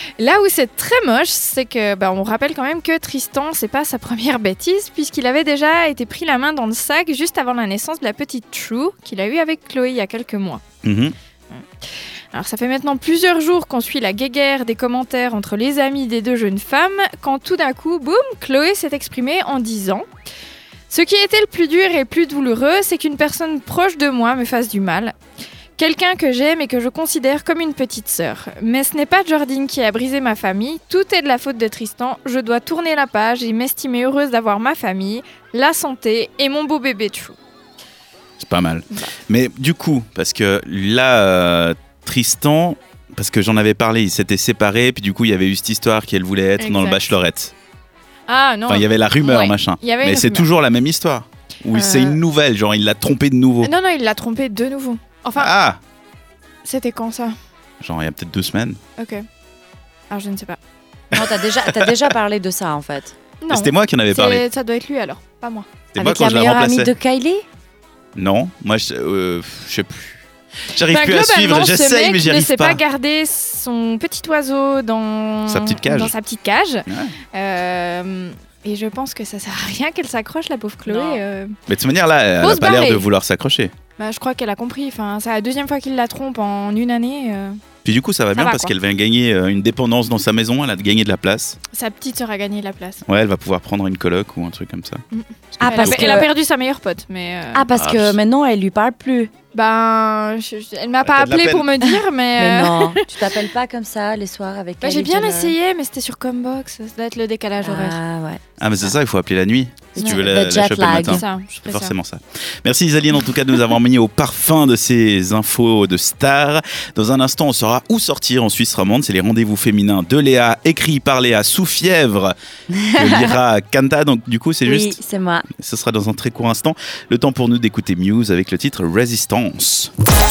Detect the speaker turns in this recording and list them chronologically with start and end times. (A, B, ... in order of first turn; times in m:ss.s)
0:00.2-0:10.6 A
0:10.8-0:11.1 B
0:11.5-0:20.1 A
0:20.9-0:25.2 A
0:25.8-0:37.4 A
0:38.4-0:47.5 B
0:46.6-0:47.1 A
0:48.3-0:50.5 A
0:48.7-0:53.7 B
0:51.7-0:52.2 A
0:53.6-0:55.5 A
0:55.4-0:55.8 B
0:56.6-0:57.4 A
0:57.8-0:58.8 B
0:59.0-0:59.2 A
1:00.1-1:00.6 A
1:01.1-1:03.2 C
1:01.1-1:02.0 B
1:03.4-1:05.7 A
1:03.5-1:04.4 B
1:05.9-1:06.9 B
1:06.0-1:07.4 C
1:08.2-1:12.8 B
1:10.9-1:21.5 A
1:15.5-1:16.2 B
1:16.9-1:17.2 B
1:20.9-1:21.2 C
1:21.7-1:23.7 B
1:22.4-1:23.1 A
1:24.0-1:27.6 A
1:27.8-1:31.6 B
1:28.3-1:28.7 A
1:31.7-1:33.0 A
1:33.1-1:35.0 B
1:35.1-1:37.7 A
1:35.5-1:36.3 B
1:35.6-1:36.3 C
1:37.5-1:39.3 C
1:37.8-1:38.2 B
1:39.5-1:43.0 A
1:41.0-1:41.7 B
1:41.8-1:45.6 C
1:44.8-1:48.0 A
1:47.6-1:49.0 C
1:48.6-2:02.3 B
1:50.0-1:51.2 C
1:50.0-1:50.3 A
1:50.9-1:52.0 A
2:02.8-2:03.4 C
2:03.0-2:05.0 B
2:04.6-2:05.5 C
2:05.6-2:09.9 B